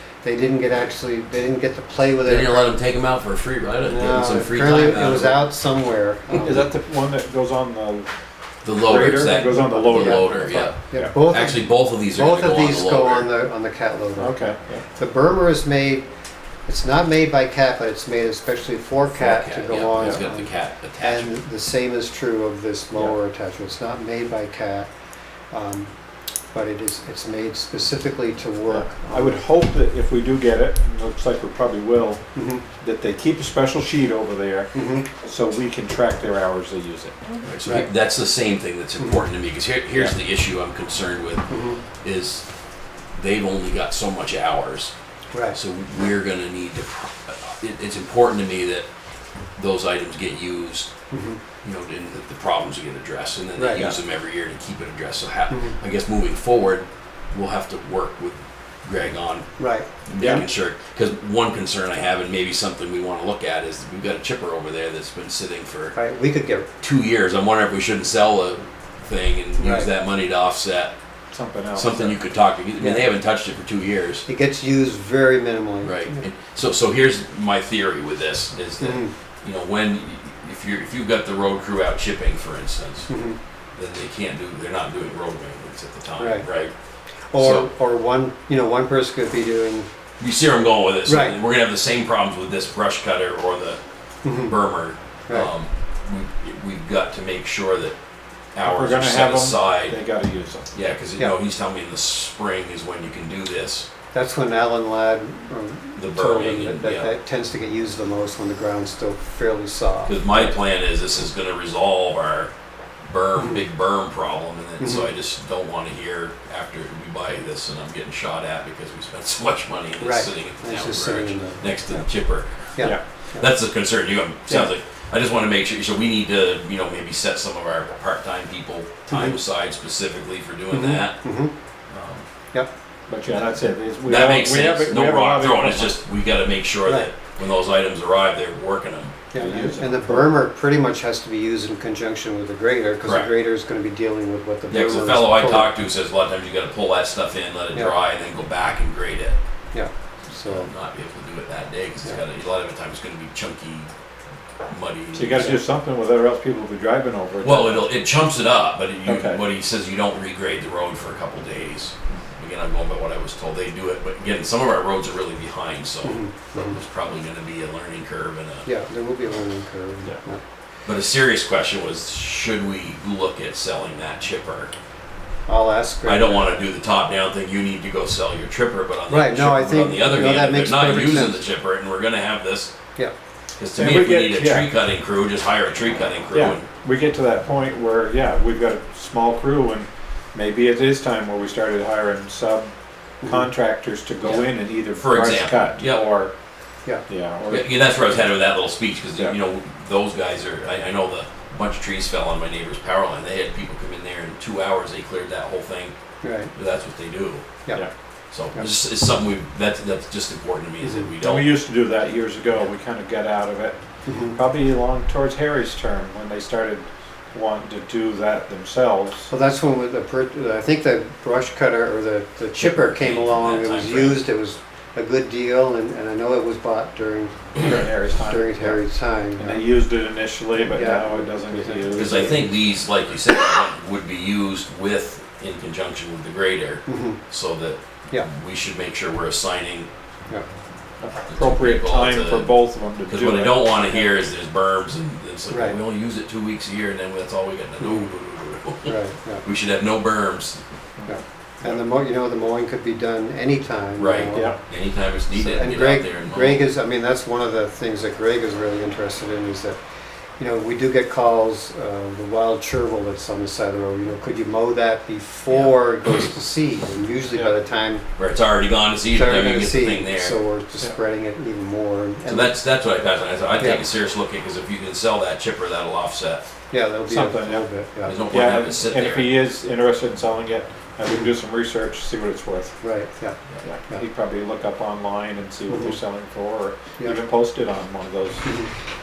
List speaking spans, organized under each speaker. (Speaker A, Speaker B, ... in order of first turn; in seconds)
Speaker A: 0.2-2.8, 3.8-6.7, 9.1-14.4, 14.9-16.1, 16.7-24.9, 25.5-25.9, 26.5-29.4, 32.4-32.6, 34.7-35.1, 41.5-41.8, 45.3-45.6, 51.1-51.4, 53.6-54.0, 55.5-55.8, 59.6-60.5, 66.0-66.7, 69.6-69.9, 72.8-73.1, 74.3-76.3, 78.8-79.1, 83.1-83.4, 86.2-86.5, 87.3-89.9, 91.1-91.4, 94.2-94.6, 104.1-110.6, 113.4-113.6, 114.8-115.1, 120.0-122.1, 122.8-123.5, 129.1-129.4, 130.7-131.5, 136.9-137.1, 139.3-145.7, 149.7-150.7, 155.3-155.6, 166.0-166.8, 168.7-170.4, 175.5-176.6, 179.1-181.4, 193.2-193.5, 206.2-206.5, 210.8-211.1, 214.1-214.4, 219.3-229.6, 230.6-232.4, 236.9-237.2, 245.5-245.8, 247.8-248.1, 248.8-249.4, 251.1-254.6, 255.3-259.8, 260.4-268.0, 269.1-272.6, 276.7-278.1, 282.8-284.0, 285.7-286.0, 288.4-288.7
Speaker B: 2.2-5.4, 8.6-13.3, 19.2-21.3, 37.4-42.5, 43.1-44.9, 45.5-48.9, 49.6-50.9, 51.6-66.0, 66.8-71.0, 71.7-74.3, 75.8-83.1, 83.8-86.7, 87.4-87.7, 90.2-93.8, 94.3-98.0, 98.5-100.0, 100.7-103.9, 106.0-107.1, 110.1-112.5, 113.1-131.2, 131.9-132.2, 134.1-139.2, 143.0-143.3, 144.7-149.4, 150.4-153.9, 154.7-155.5, 157.4-168.7, 170.9-174.7, 176.1-182.7, 183.6-186.7, 194.2-196.1, 197.5-206.0, 206.5-207.6, 208.3-211.6, 222.6-224.2, 231.9-239.9, 241.3-250.6, 254.0-256.6, 265.5-265.8, 268.2-270.4, 272.2-276.4, 278.1-279.4
Speaker C: 6.3-8.1, 8.7-11.1, 14.2-14.8, 28.7-32.3, 32.8-37.4, 60.2-60.4, 71.3-72.2, 98.6-100.7, 133.1-135.9, 139.4-140.3, 155.1-157.9, 159.1-159.4, 183.8-184.7, 186.3-192.7, 193.2-196.3, 197.1-197.7, 211.2-219.3, 227.6-228.8, 229.4-232.4, 241.0-244.1, 251.0-251.8, 277.1-277.7, 278.3-282.8, 283.6-288.5